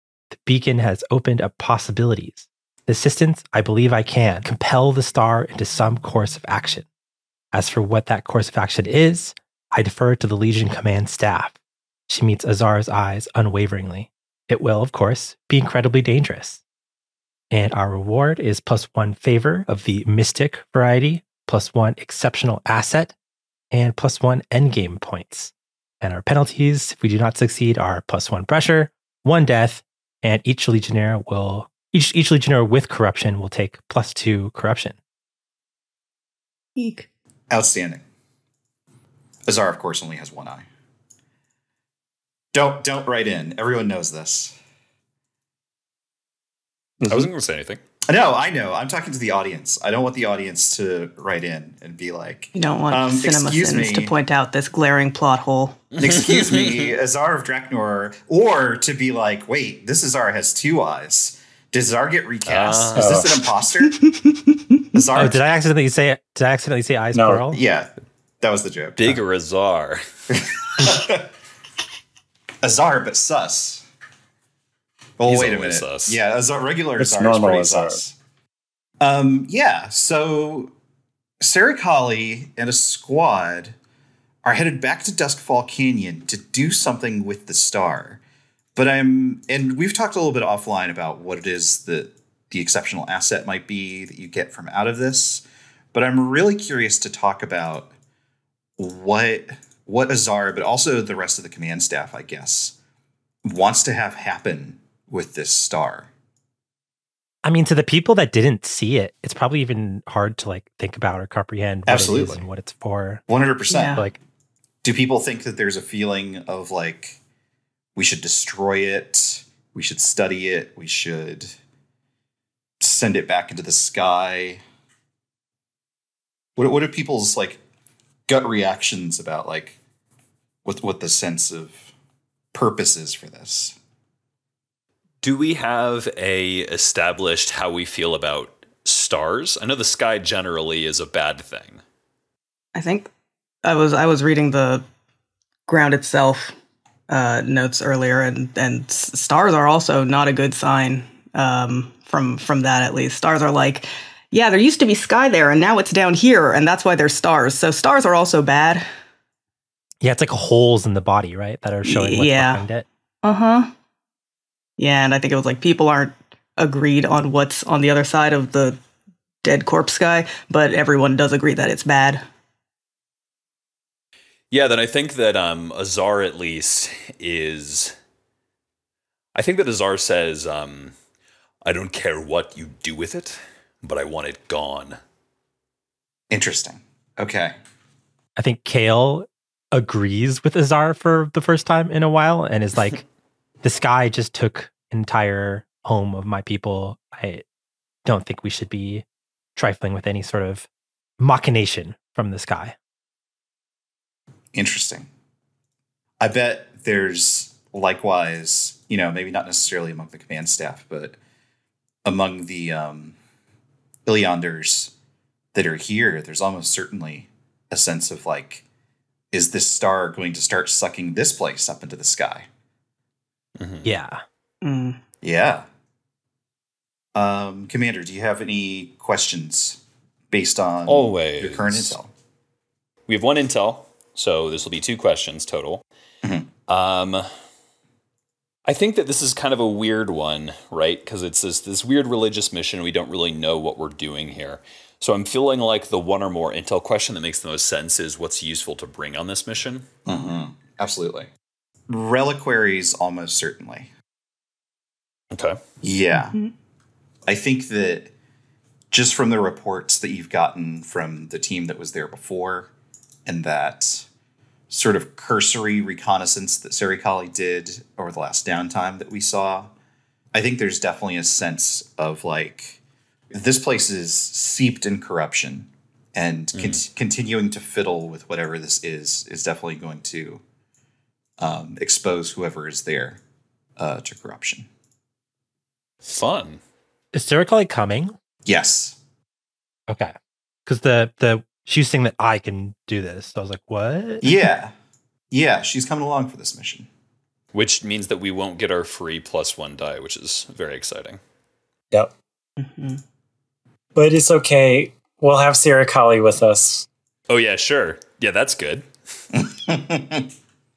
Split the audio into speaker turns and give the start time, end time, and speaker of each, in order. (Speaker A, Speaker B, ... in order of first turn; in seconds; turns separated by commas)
Speaker A: 0.3-6.9, Speaker A: 7.5-11.6, Speaker A: 12.1-16.6, Speaker A: 17.5-23.1, Speaker A: 23.7-35.0, Speaker B: 36.8-37.1, Speaker C: 37.5-38.0, Speaker C: 39.5-40.6, Speaker C: 42.5-44.5, Speaker D: 47.0-47.3, Speaker E: 47.0-47.8, Speaker C: 48.1-54.1, Speaker B: 52.5-55.8, Speaker E: 56.0-56.9, Speaker C: 56.0-64.0, Speaker E: 62.5-63.3, Speaker D: 63.0-63.4, Speaker B: 63.9-64.8, Speaker C: 64.9-65.4, Speaker A: 65.1-67.6, Speaker D: 67.1-67.5, Speaker C: 67.5-69.2, Speaker E: 69.0-70.0, Speaker C: 70.3-71.3, Speaker C: 72.6-73.8, Speaker C: 75.2-78.2, Speaker E: 75.3-76.2, Speaker D: 77.0-78.0, Speaker C: 79.0-80.7, Speaker C: 81.4-83.7, Speaker C: 84.4-88.2, Speaker C: 88.8-97.9, Speaker C: 98.8-102.8, Speaker C: 103.4-106.1, Speaker A: 107.5-113.2, Speaker C: 111.9-112.4, Speaker C: 113.3-114.0, Speaker B: 113.7-114.1, Speaker C: 114.8-117.2, Speaker C: 118.0-121.6, Speaker C: 122.8-124.6, Speaker C: 126.6-127.6, Speaker C: 128.3-129.8, Speaker C: 130.7-131.9, Speaker C: 132.5-133.8, Speaker E: 135.2-141.8, Speaker B: 142.8-143.1, Speaker B: 143.6-144.8, Speaker B: 145.7-146.5, Speaker B: 147.1-158.8, Speaker A: 160.0-162.8, Speaker B: 161.8-162.6, Speaker B: 163.2-163.7, Speaker B: 164.8-168.8, Speaker B: 169.4-172.2, Speaker E: 174.5-177.9, Speaker E: 179.3-180.9, Speaker E: 181.6-185.0, Speaker C: 186.3-187.6, Speaker A: 188.4-193.0, Speaker A: 193.6-197.4, Speaker A: 198.1-199.1, Speaker A: 199.6-200.7, Speaker A: 201.2-202.8, Speaker C: 204.5-205.1, Speaker C: 206.2-211.2, Speaker C: 212.1-213.2, Speaker C: 214.1-214.9, Speaker C: 215.5-218.6, Speaker C: 219.3-222.5, Speaker E: 223.6-223.9, Speaker A: 223.8-224.2, Speaker B: 224.6-225.0, Speaker C: 225.2-225.7, Speaker C: 227.2-229.8, Speaker C: 230.3-232.1, Speaker E: 230.9-232.0, Speaker E: 233.1-235.8, Speaker E: 236.7-237.3, Speaker E: 238.7-249.9, Speaker C: 250.1-251.3, Speaker C: 251.9-253.9, Speaker E: 255.3-255.6, Speaker C: 255.8-256.4, Speaker B: 256.1-256.5, Speaker C: 257.3-258.1, Speaker C: 258.9-262.7, Speaker C: 263.3-264.1, Speaker C: 264.7-269.7, Speaker C: 270.3-272.8, Speaker C: 273.3-280.4, Speaker E: 276.5-276.8, Speaker C: 281.4-283.2, Speaker C: 283.8-284.7, Speaker E: 286.0-286.6, Speaker A: 287.1-288.1, Speaker C: 288.4-289.0, Speaker A: 289.9-290.1, Speaker A: 290.7-294.3, Speaker C: 294.2-294.7, Speaker C: 295.3-296.9, Speaker E: 297.5-301.2, Speaker B: 302.6-303.0, Speaker D: 303.9-306.9, Speaker E: 307.3-308.9, Speaker C: 309.3-310.3